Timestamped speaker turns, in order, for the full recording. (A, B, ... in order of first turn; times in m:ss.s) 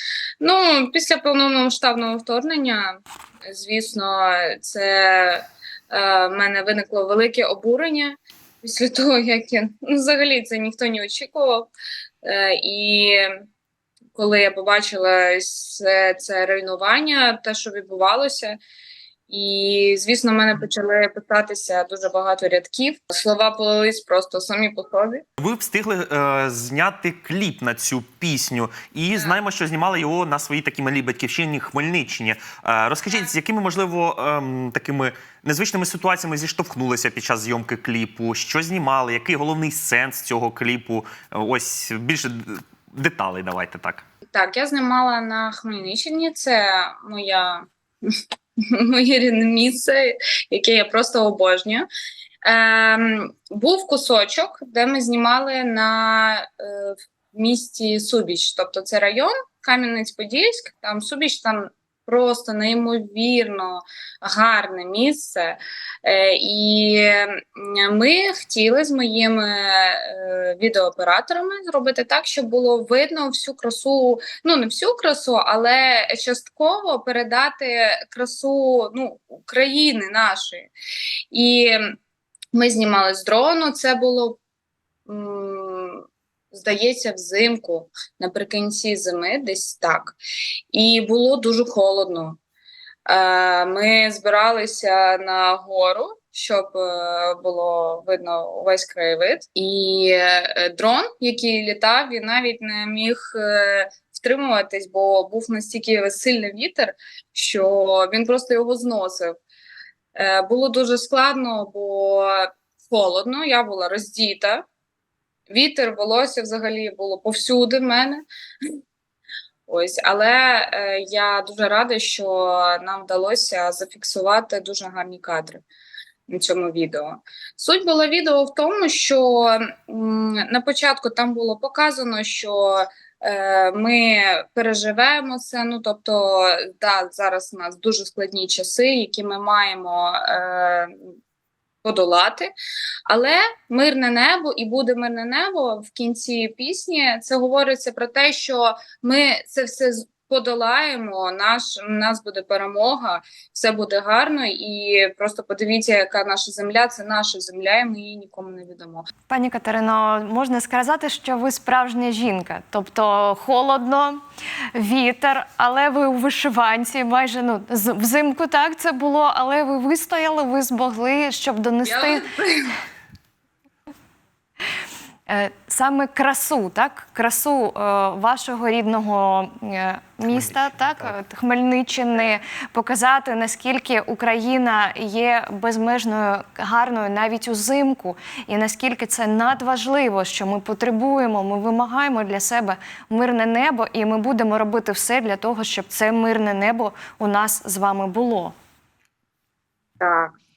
0:00.4-0:11.7 A
0:12.2-0:13.4 A
0:14.2-0:18.6 A
0:19.3-0:25.2 A
0:25.4-0:44.0 B
0:44.3-0:51.9 A
0:52.4-1:20.7 A
1:21.3-1:22.0 A
1:22.5-1:24.4 A
1:25.1-1:30.2 A
1:30.7-1:32.4 A
1:33.1-1:49.4 A
1:50.2-1:54.6 A
1:55.5-1:58.2 A
1:59.7-2:05.6 A
2:06.3-2:21.0 A
2:21.8-2:22.5 A
2:23.1-2:39.1 A
2:39.3-2:44.2 C
2:44.8-2:52.3 C
2:51.8-2:52.8 A
2:55.3-3:18.6 C
3:00.3-3:01.2 B
3:20.0-3:20.3 A